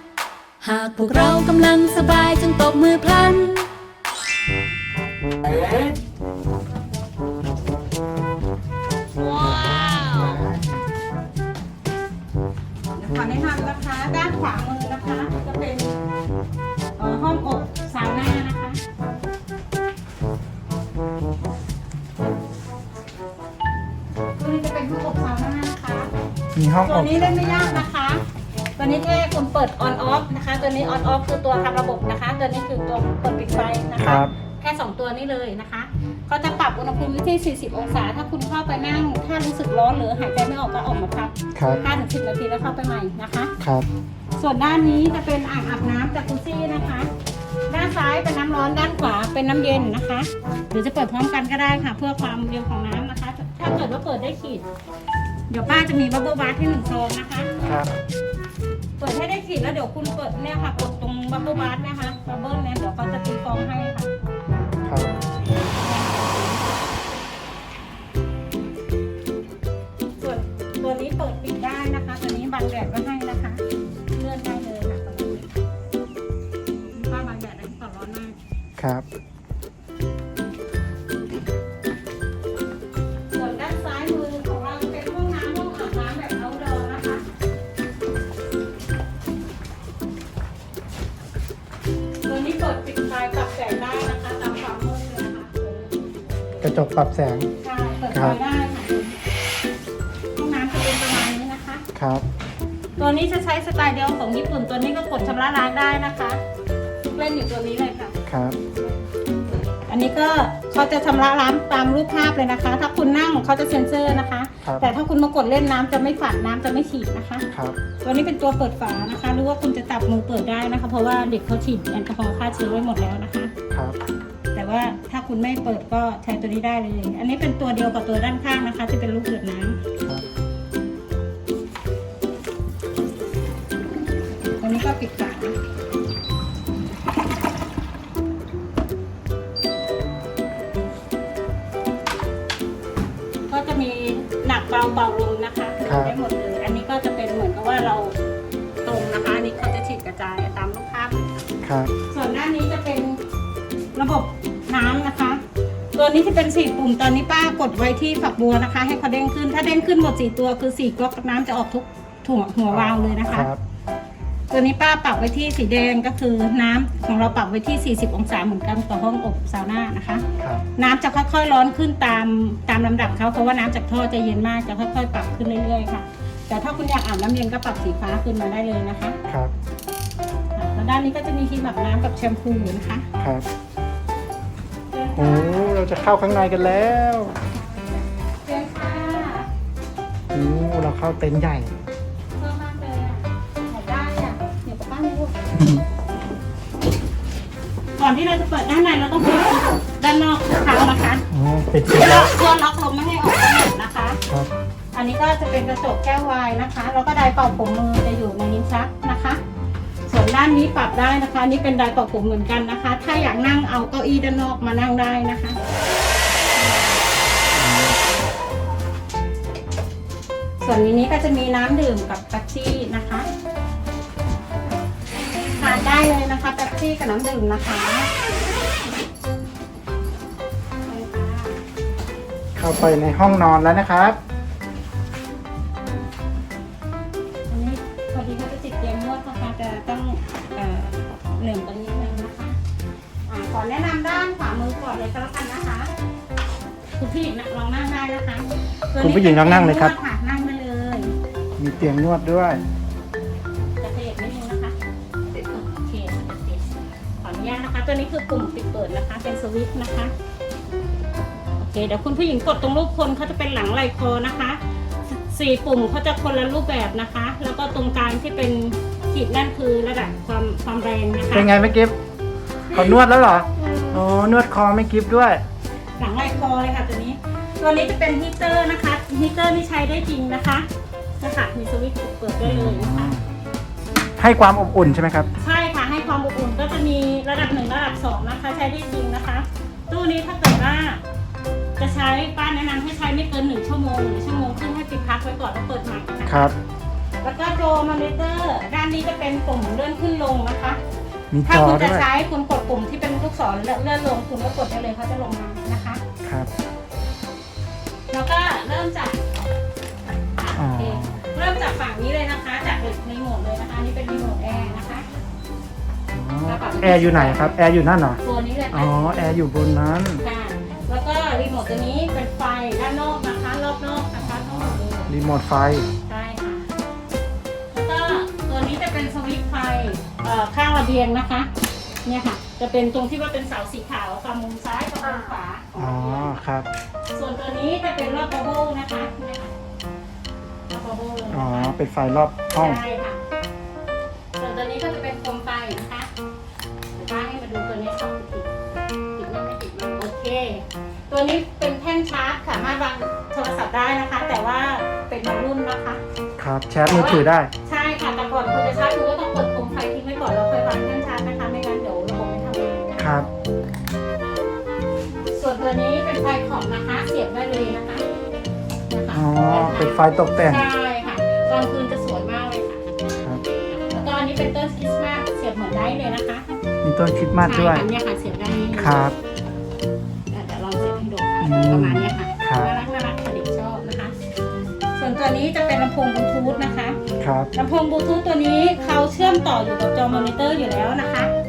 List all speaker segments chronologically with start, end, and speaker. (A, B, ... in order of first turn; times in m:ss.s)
0:00.6-0:03.6 A
0:09.4-0:10.4 A
0:12.9-0:16.0 B
0:17.0-0:18.8 B
0:24.4-0:26.1 B
0:26.5-0:27.9 C
0:26.8-0:28.2 B
0:28.8-0:43.5 B
0:34.0-0:34.3 C
0:41.6-0:41.8 C
0:43.6-0:43.9 C
0:44.4-0:47.1 B
0:47.7-0:54.6 B
0:55.5-0:57.5 B
0:57.6-0:57.9 C
0:59.0-1:04.1 B
1:04.8-1:05.1 C
1:05.7-1:06.8 B
1:10.2-1:15.5 B
1:16.9-1:18.4 B
1:18.8-1:19.0 C
1:23.3-1:27.2 B
1:32.2-1:36.7 B
1:36.6-1:37.5 C
1:37.6-1:39.2 B
1:38.1-1:38.4 C
1:40.4-1:41.8 B
1:41.9-1:42.2 C
1:43.0-1:46.4 B
1:47.0-1:48.1 B
1:48.3-1:48.6 C
1:49.9-1:57.4 B
1:54.6-1:54.9 C
1:57.5-1:57.8 C
1:58.0-2:03.5 B
2:03.7-2:04.0 C
2:04.5-2:09.8 B
2:14.6-2:15.6 B
2:23.5-2:28.1 B
2:25.8-2:26.1 C
2:28.8-2:31.2 B
2:31.6-2:31.9 C
2:32.1-2:33.2 B
2:33.9-2:35.4 B
2:36.0-2:43.5 B
2:42.7-2:43.6 C
2:44.5-2:50.2 B
2:50.8-2:59.2 B
3:00.6-3:03.1 B
3:03.2-3:03.5 C
3:04.9-3:05.9 B
3:05.2-3:07.4 C
3:07.5-3:09.5 B
3:10.3-3:11.8 C
3:12.4-3:15.3 B
3:15.6-3:15.8 C
3:18.0-3:21.3 B
3:21.3-3:22.3 C
3:21.9-3:24.2 B
3:24.9-3:29.4 B
3:30.1-3:35.6 B
3:36.6-3:37.0 B
3:37.5-3:38.0 C
3:40.6-3:43.3 B
3:45.5-3:48.1 B
3:50.9-3:51.6 B
3:52.6-3:54.2 C
3:57.5-4:02.6 B
4:03.3-4:05.9 B
4:07.0-4:11.1 B
4:09.0-4:10.0 C
4:11.6-4:12.6 C
4:13.8-4:14.8 B
4:15.3-4:16.6 B
4:17.2-4:20.1 B
4:21.6-4:31.5 B
4:31.3-4:31.9 C
4:32.7-4:35.4 C
4:32.7-4:33.0 B
4:33.6-4:34.0 B
4:36.0-4:40.6 B
4:41.2-4:43.1 B
4:42.4-4:43.2 C
4:44.2-4:45.3 C
4:45.4-4:51.0 B
4:51.8-4:56.5 B
4:56.2-4:56.5 C
4:57.2-5:00.8 B
5:01.3-5:02.1 C
5:01.4-5:06.0 B
5:06.2-5:06.5 C
5:08.1-5:09.2 B
5:10.4-5:15.1 B
5:10.5-5:11.2 C
5:16.1-5:18.2 C
5:16.4-5:17.5 B
5:18.2-5:19.1 B
5:18.7-5:20.2 C
5:20.2-5:25.1 B
5:24.2-5:25.9 C
5:26.1-5:26.7 B
5:27.7-5:31.5 B
5:32.0-5:36.3 B
5:35.8-5:36.7 C
5:37.1-5:39.5 B
5:40.7-5:41.8 B
5:41.3-5:42.8 C
5:42.5-5:43.2 B
5:44.4-5:46.1 B
5:46.9-5:48.5 B
5:49.2-5:56.0 B
5:56.4-5:57.5 C
5:56.8-6:03.0 B
6:03.0-6:03.3 C
6:05.3-6:08.0 B
6:08.9-6:12.8 B
6:09.1-6:10.6 C
6:13.2-6:13.4 C
6:13.7-6:16.5 B
6:16.8-6:17.9 C
6:17.4-6:19.0 B
6:18.8-6:19.1 C
6:20.3-6:24.1 B
6:21.4-6:22.7 C
6:24.9-6:27.0 B
6:27.2-6:27.5 C
6:27.5-6:31.3 B